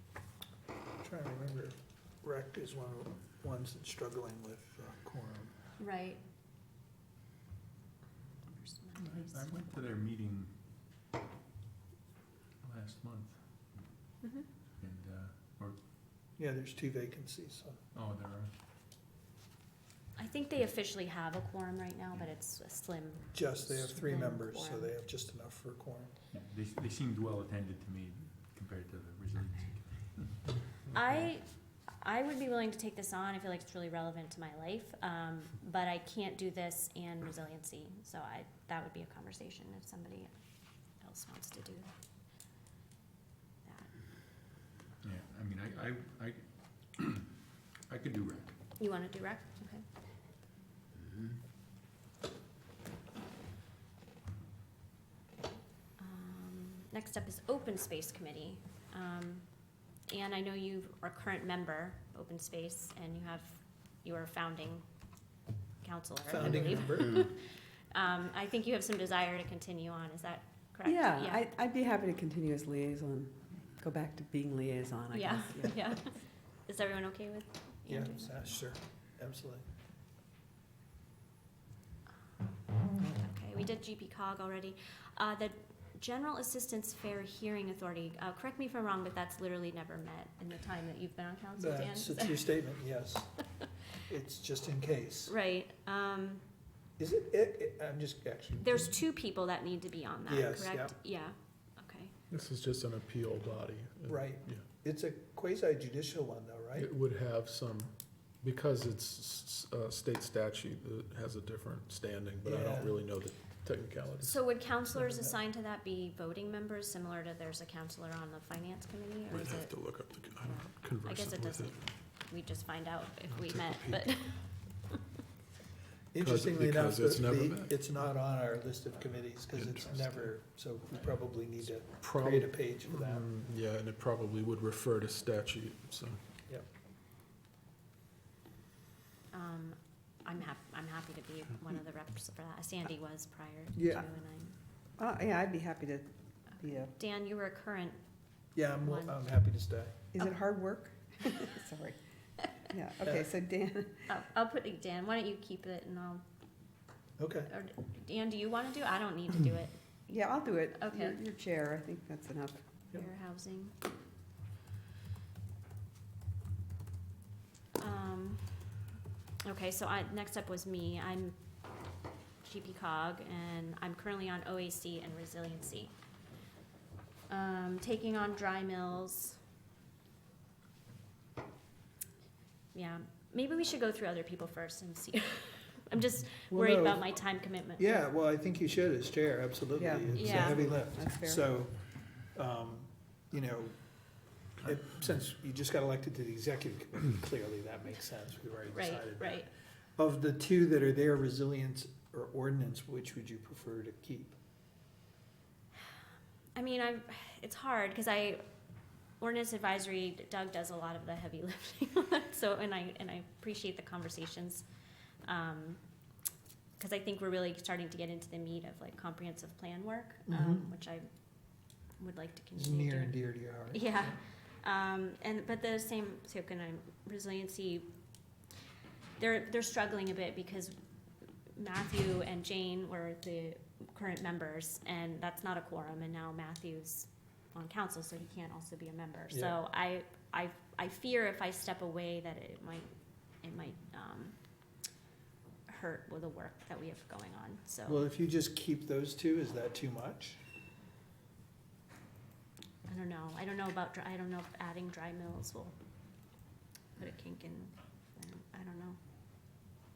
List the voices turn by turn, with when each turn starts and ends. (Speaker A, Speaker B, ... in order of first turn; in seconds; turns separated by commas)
Speaker A: 1.0-5.5, Speaker B: 5.8-6.2, Speaker B: 8.5-9.4, Speaker C: 9.0-10.5, Speaker C: 12.6-13.4, Speaker B: 14.2-14.5, Speaker C: 14.8-15.8, Speaker A: 16.4-17.8, Speaker C: 17.9-18.5, Speaker B: 20.1-24.9, Speaker A: 23.3-26.1, Speaker C: 26.3-30.5, Speaker B: 30.9-40.3, Speaker B: 41.0-41.9, Speaker B: 43.6-43.9, Speaker C: 45.0-47.4, Speaker C: 47.9-48.6, Speaker B: 48.8-49.8, Speaker B: 56.0-64.8, Speaker B: 65.8-71.5, Speaker A: 66.3-67.2, Speaker D: 70.8-75.7, Speaker B: 75.1-78.6, Speaker A: 77.9-79.6, Speaker B: 83.1-92.6, Speaker A: 91.6-93.3, Speaker A: 94.1-95.3, Speaker B: 95.2-96.4, Speaker A: 97.0-98.9, Speaker B: 98.6-102.1, Speaker A: 100.3-100.9, Speaker E: 102.3-104.6, Speaker A: 104.1-106.9, Speaker E: 106.7-114.4, Speaker A: 112.4-113.0, Speaker B: 114.2-125.0, Speaker A: 114.9-115.3, Speaker E: 119.3-121.9, Speaker E: 123.3-124.2, Speaker A: 126.1-133.2, Speaker E: 126.2-127.7, Speaker E: 129.5-130.3, Speaker E: 131.9-136.2, Speaker B: 139.3-144.6, Speaker A: 143.7-144.0, Speaker D: 145.0-146.9, Speaker B: 146.8-148.0, Speaker A: 148.5-150.1, Speaker B: 148.8-149.2, Speaker D: 150.1-152.0, Speaker D: 152.6-154.1, Speaker A: 153.0-153.3, Speaker B: 154.1-156.2, Speaker A: 157.2-157.5, Speaker B: 157.5-159.8, Speaker D: 160.1-162.6, Speaker B: 160.7-161.2, Speaker B: 162.9-163.7, Speaker B: 167.8-168.8, Speaker B: 169.4-171.3, Speaker B: 172.4-175.9, Speaker B: 177.3-179.4, Speaker B: 182.7-188.0, Speaker A: 186.5-187.2, Speaker A: 187.8-191.7, Speaker D: 189.7-191.5, Speaker B: 190.1-190.7, Speaker A: 192.3-193.8, Speaker A: 194.6-204.3, Speaker B: 198.7-199.5, Speaker B: 206.5-208.4, Speaker B: 209.2-214.6, Speaker B: 215.2-215.8, Speaker B: 216.8-221.1, Speaker A: 220.3-220.6, Speaker B: 222.0-223.2, Speaker A: 222.6-224.2, Speaker B: 223.7-227.9, Speaker B: 229.2-230.8, Speaker B: 231.5-242.9, Speaker A: 239.3-239.6, Speaker B: 243.4-244.3, Speaker B: 245.7-248.0, Speaker A: 247.9-250.4, Speaker B: 252.9-255.8, Speaker B: 257.0-259.0